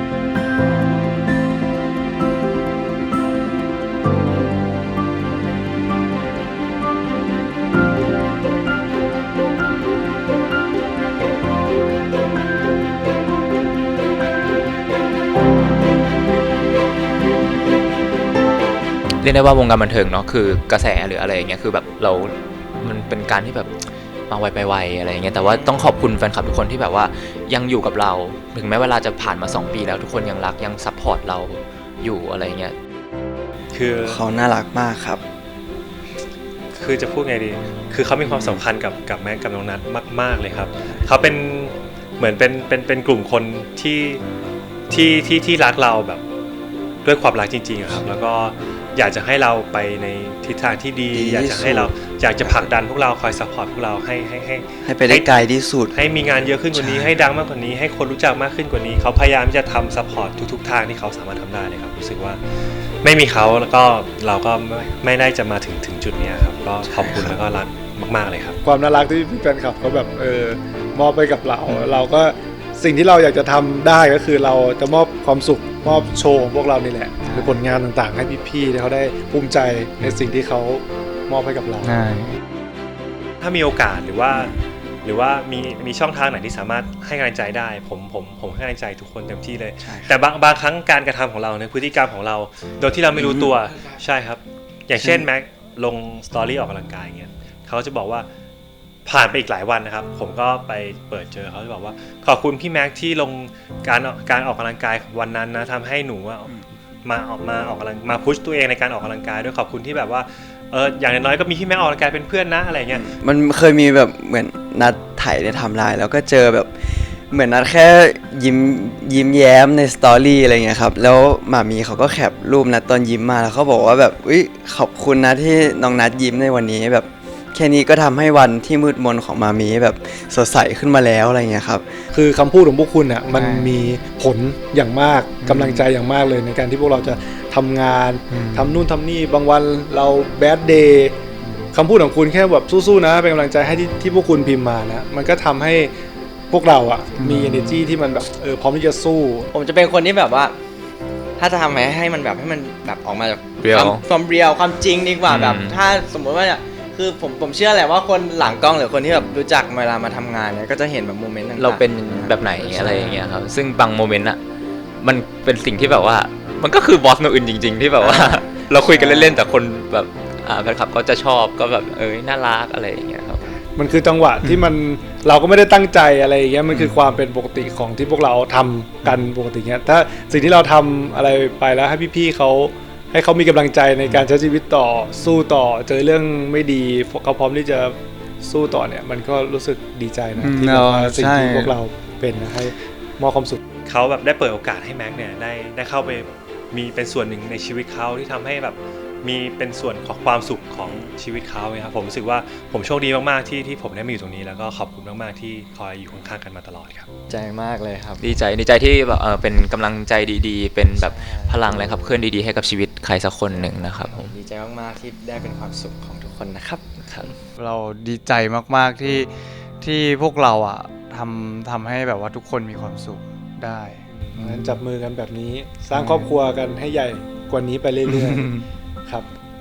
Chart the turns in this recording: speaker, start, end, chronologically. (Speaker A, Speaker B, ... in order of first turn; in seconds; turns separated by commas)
Speaker A: 19.2-23.7, Speaker A: 24.3-32.8, Speaker B: 25.4-25.9, Speaker C: 33.7-34.2, Speaker D: 34.0-35.2, Speaker C: 36.7-44.2, Speaker C: 44.9-46.2, Speaker C: 47.0-55.3, Speaker D: 51.1-52.7, Speaker D: 54.9-56.0, Speaker C: 55.9-62.4, Speaker D: 56.7-57.1, Speaker C: 63.0-68.6, Speaker D: 66.9-67.3, Speaker E: 68.6-82.0, Speaker F: 71.7-72.0, Speaker F: 77.2-77.6, Speaker F: 81.8-82.4, Speaker C: 83.4-98.3, Speaker D: 89.8-90.1, Speaker D: 93.2-93.6, Speaker D: 95.0-95.3, Speaker C: 99.1-113.1, Speaker D: 112.9-131.9, Speaker E: 132.1-141.2, Speaker F: 133.3-133.8, Speaker F: 135.4-135.9, Speaker F: 138.3-138.8, Speaker F: 141.4-141.7, Speaker E: 141.7-145.9, Speaker E: 146.5-149.5, Speaker F: 147.2-147.8, Speaker B: 149.5-150.6, Speaker B: 151.4-163.3, Speaker A: 153.6-154.0, Speaker A: 155.3-155.8, Speaker A: 161.6-164.4, Speaker A: 165.0-173.5, Speaker B: 168.0-169.5, Speaker E: 173.8-193.6, Speaker F: 190.4-191.8, Speaker C: 193.8-207.1, Speaker B: 200.8-201.1, Speaker B: 207.3-208.4, Speaker A: 208.2-214.3, Speaker B: 210.9-212.0, Speaker B: 213.5-216.9, Speaker A: 217.0-217.3, Speaker F: 217.6-224.8, Speaker E: 224.2-229.3, Speaker F: 226.0-226.3, Speaker F: 228.1-228.6